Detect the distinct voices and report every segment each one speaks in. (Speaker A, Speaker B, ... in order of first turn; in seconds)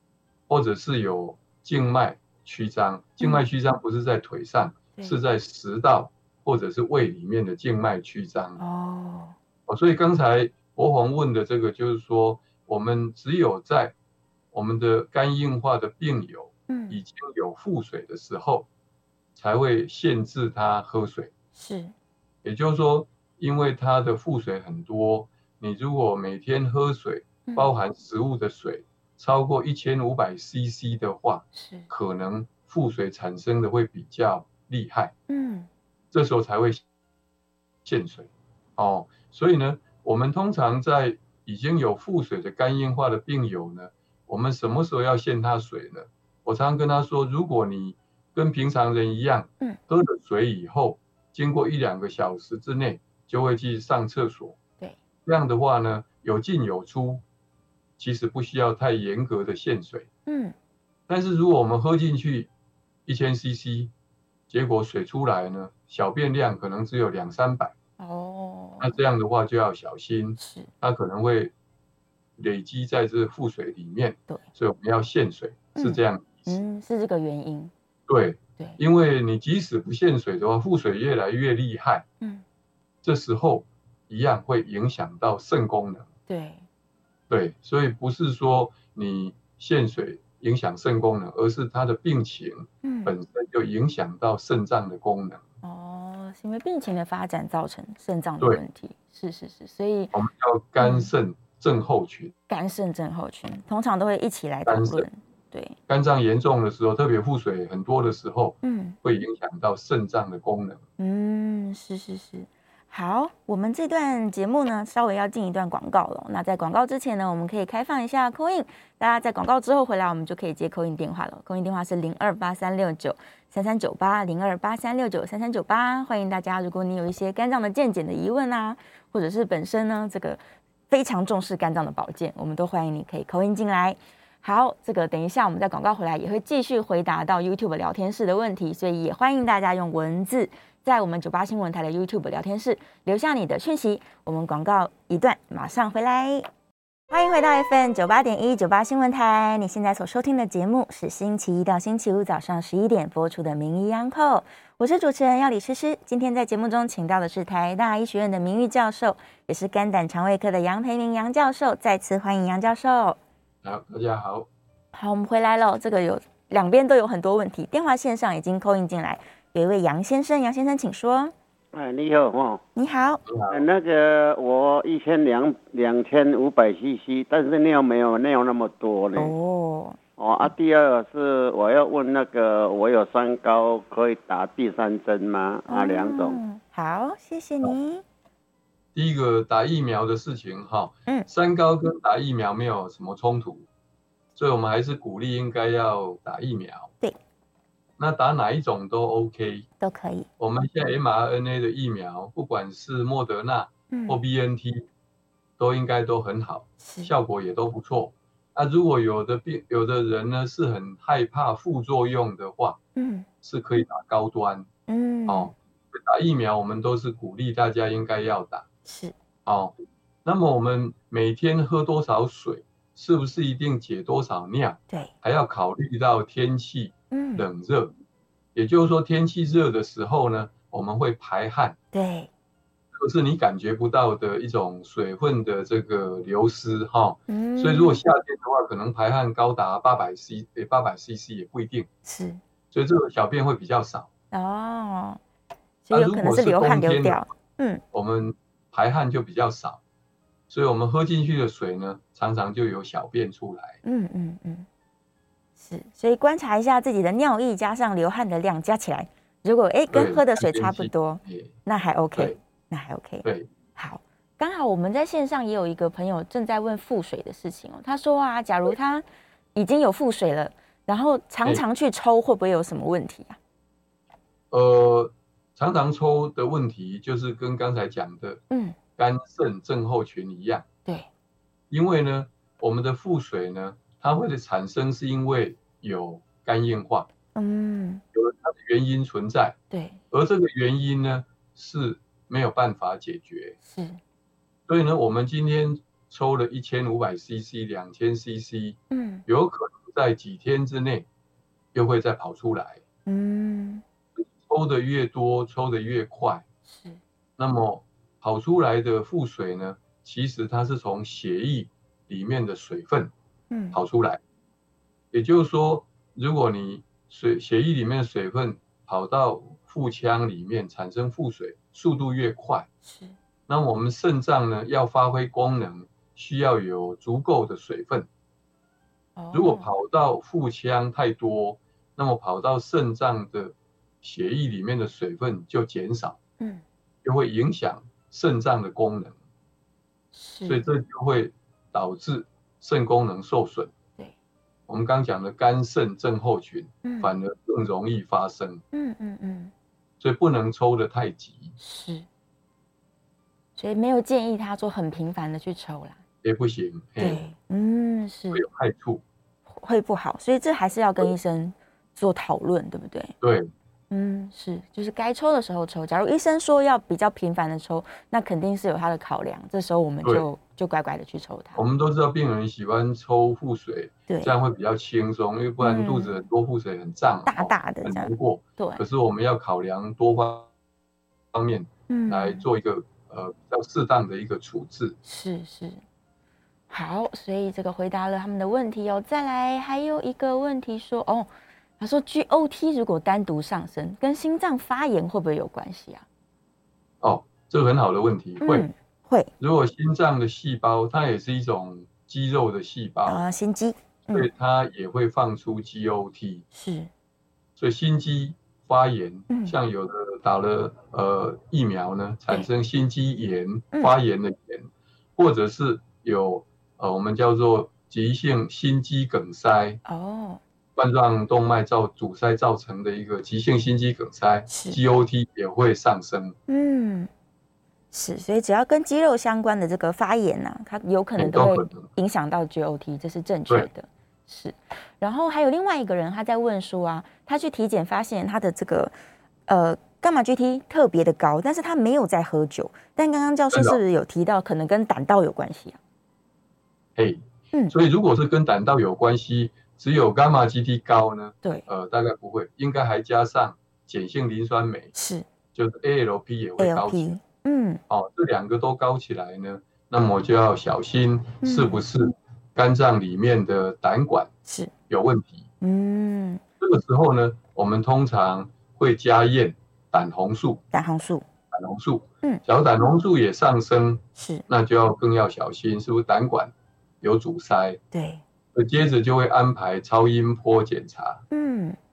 Speaker A: 0.5-8.6, 9.7-13.9, 14.5-18.7, 19.4-21.3, 22.4-35.1, 36.1-36.8, 37.9-54.6, 55.3-57.2, 58.0-60.1, 61.1-62.5, 63.1-63.9, 64.5-67.7, 68.8-71.5, 72.4-76.6, 78.1-82.1, 83.0-86.1, 87.3-95.4, 100.1-102.3, 104.7-105.1, 105.9-110.8, 163.6-164.5, 173.3-173.7, 188.9-193.7, 194.4-196.9, 198.0-199.7, 200.4-204.9, 205.6-212.8, 213.4-214.7, 215.3-218.7, 219.5-227.9, 228.6-231.8, 232.9-241.9, 242.7-244.1, 245.9-247.3, 247.9-249.8, 250.5-253.8, 259.9-261.5, 263.2-263.5, 274.5-278.4, 279.0-280.6, 281.7-287.1, 288.1-289.6, 290.1-293.6, 294.7-301.1, 301.7-302.8, 304.2-306.4, 307.4-313.1, 313.7-314.2, 315.1-322.7, 323.5-328.1, 329.3-336.2, 337.0-339.1, 340.4-343.7, 344.7-348.6, 350.0-351.6, 356.2-357.2, 358.3-359.0, 363.2-363.5, 371.6-380.5, 381.3-385.0, 397.0-398.7, 399.4-403.2, 404.1-406.4, 407.6-419.8, 420.8-426.4, 431.2-431.9, 443.5-443.8, 447.0-454.9, 455.6-457.2, 457.9-464.3, 464.9-465.5, 466.6-470.6, 471.5-477.8, 478.5-481.2
Speaker B: 8.6-9.3, 16.7-17.0, 21.6-21.9, 27.5-27.7, 31.5-31.9, 35.3-35.7, 60.3-60.5, 68.0-69.0, 70.4-70.7, 75.8-77.7, 86.3-86.7, 92.8-93.1, 95.6-100.1, 100.8-101.1, 102.5-105.8, 108.6-109.0, 111.0-146.5, 147.1-163.2, 164.9-171.3, 172.8-173.2, 179.2-180.0, 185.7-188.0, 199.8-200.3, 203.9-204.2, 206.8-207.1, 213.0-213.3, 214.9-215.5, 218.8-219.1, 227.1-227.5, 231.9-232.3, 237.3-238.0, 242.1-242.4, 244.3-245.2, 245.9-247.8, 253.8-254.7, 255.6-269.0, 269.6-273.4, 278.5-278.8, 287.4-288.0, 289.7-290.0, 293.7-294.0, 298.9-299.2, 303.1-303.8, 306.7-307.0, 313.5-313.8, 322.8-323.2, 329.2-329.7, 340.1-340.6, 346.9-347.1, 348.7-349.5, 351.6-352.1, 353.6-356.0, 357.0-358.4, 359.6-363.1, 363.9-371.6, 374.1-374.3, 375.6-376.2, 377.3-378.8, 381.9-382.5, 385.0-385.8, 386.7-396.0, 398.4-399.3, 403.1-404.3, 406.5-406.9, 409.3-409.6, 419.9-420.4, 424.5-424.8, 426.5-427.1, 427.9-438.9, 439.5-445.8, 454.9-455.2, 456.6-457.8, 461.4-461.8, 464.5-464.7, 465.6-466.4, 470.7-471.2, 474.1-474.4, 477.9-478.2, 481.3-481.8
Speaker C: 171.7-172.6, 173.5-179.3, 180.2-186.4